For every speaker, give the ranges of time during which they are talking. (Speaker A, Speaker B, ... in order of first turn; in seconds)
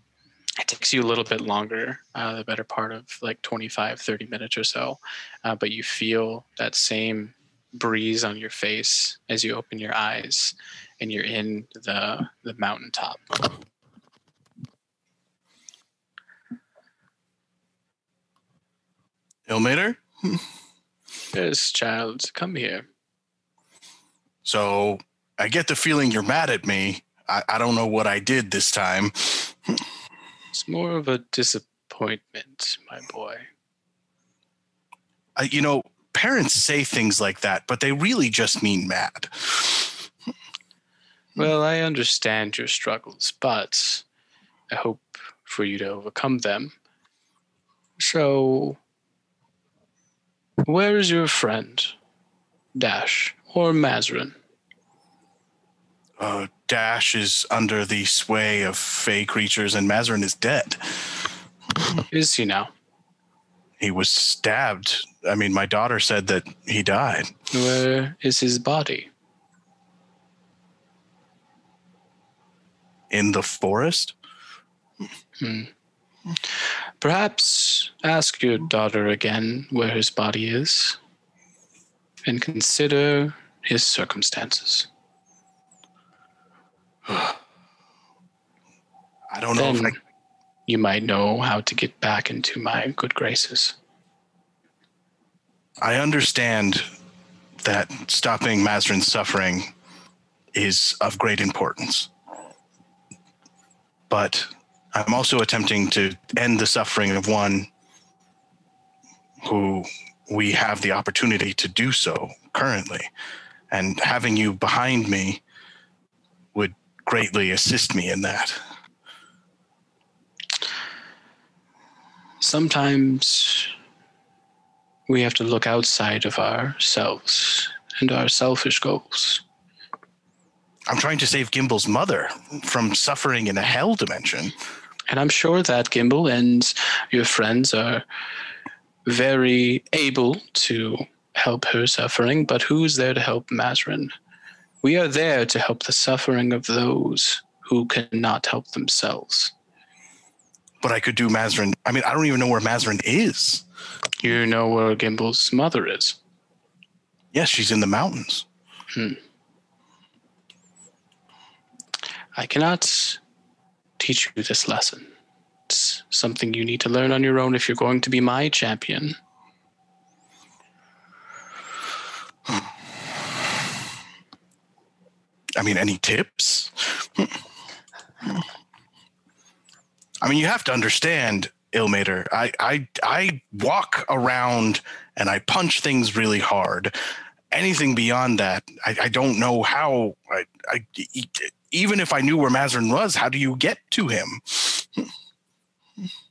Speaker A: 0.6-13.5, 21.3-22.9, 30.5-33.5, 41.4-44.0, 44.7-46.7, 48.0-48.8, 50.6-52.0, 52.8-54.3, 62.1-62.7, 67.5-69.1, 75.4-75.7, 77.0-81.0, 82.2-84.9, 89.5-90.0, 90.7-93.8, 122.4-123.7, 125.1-129.4, 135.1-138.0, 139.1-144.1, 144.8-149.5, 154.2-156.2, 158.9-159.2, 162.4-163.2, 164.0-165.1, 165.7-169.2
Speaker B: 19.5-20.4, 24.4-29.7, 35.4-40.0, 56.2-61.2, 63.8-67.3, 73.1-74.2, 89.3-90.0, 95.8-96.9, 97.6-99.7, 100.5-102.1, 104.1-107.7, 109.4-113.1, 113.7-115.4, 116.5-118.6, 130.9-134.6, 150.8-153.6, 157.3-158.4, 175.6-177.3, 180.2-187.0, 187.5-195.1